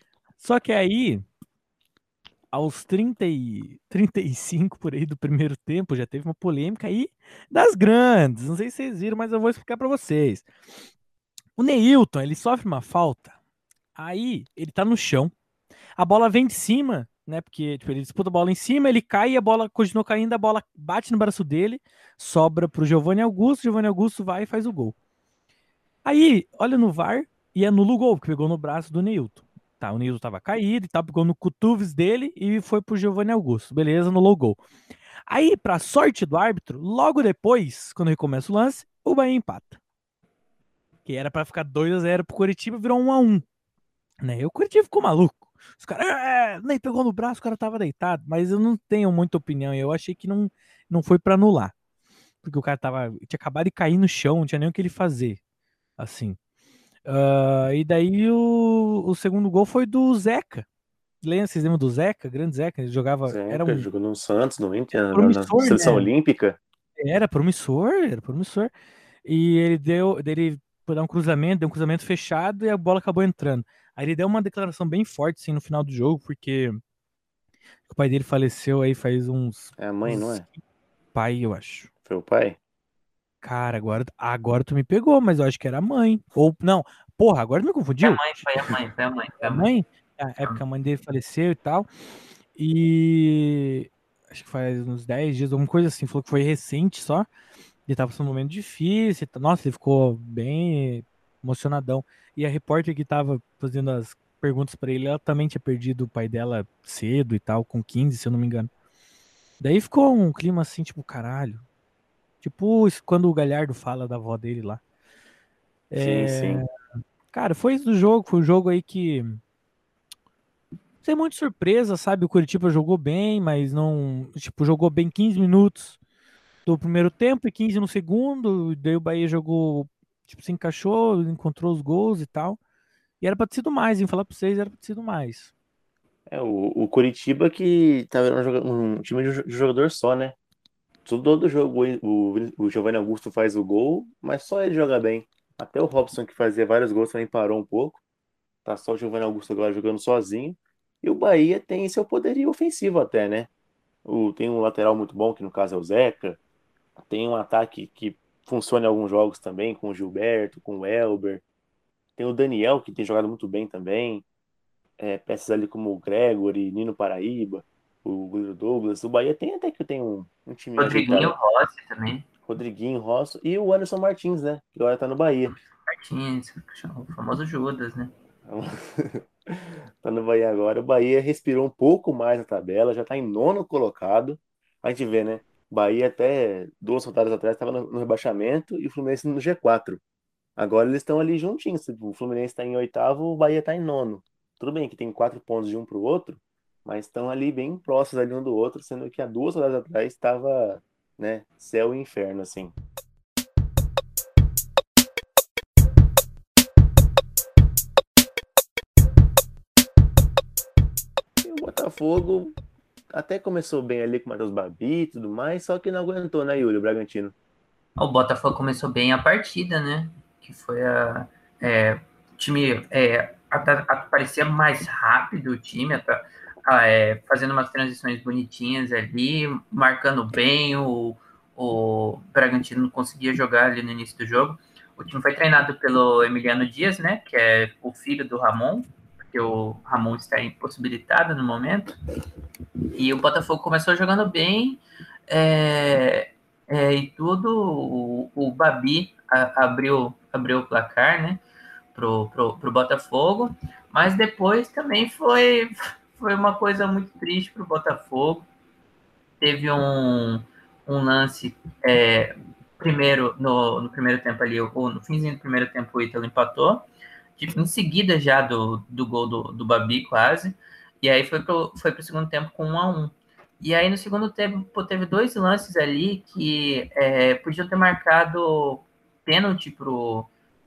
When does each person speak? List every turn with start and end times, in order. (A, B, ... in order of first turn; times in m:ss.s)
0:00.4-0:01.2 A
0:02.5-0:10.5 A
0:11.6-0:13.4 A
0:14.0-0:15.3 A
0:16.0-0:25.0 A
0:26.0-0:34.6 A
0:35.3-0:39.8 A
0:41.0-0:43.4 A
0:44.2-0:51.7 A
0:52.4-0:55.4 A
0:56.0-0:56.4 A
0:57.1-1:00.6 A
1:01.2-1:03.9 A
1:03.3-1:06.6 B
1:05.1-1:06.1 A
1:07.0-1:08.7 A
1:09.2-1:16.8 A
1:17.9-1:20.6 A
1:19.8-1:20.4 B
1:21.1-1:21.9 A
1:22.1-1:22.6 B
1:23.4-1:28.3 A
1:28.0-1:29.7 C
1:29.4-1:31.9 A
1:32.6-1:37.3 A
1:37.9-1:48.7 A
1:49.6-1:51.6 A
1:52.4-1:54.8 A
1:55.9-1:56.6 A
1:56.0-1:56.6 B
1:57.3-1:59.4 A
2:01.0-2:06.0 A
2:06.7-2:12.6 A
2:13.2-2:15.5 A
2:16.3-2:20.4 B
2:21.0-2:28.0 B
2:28.6-2:33.5 B
2:34.0-2:36.4 B
2:37.0-2:41.4 B
2:42.2-2:44.2 B
2:45.0-2:51.4 B
2:50.8-2:52.3 C
2:52.5-2:55.6 B
2:55.9-2:58.1 C
2:58.5-3:10.0 B
3:10.6-3:22.8 B
3:31.4-3:32.6 B
3:33.1-3:37.3 B
3:38.0-4:01.9 C
4:02.9-4:11.4 C
4:11.9-4:18.5 C
4:19.4-4:26.9 C
4:27.4-4:40.3 C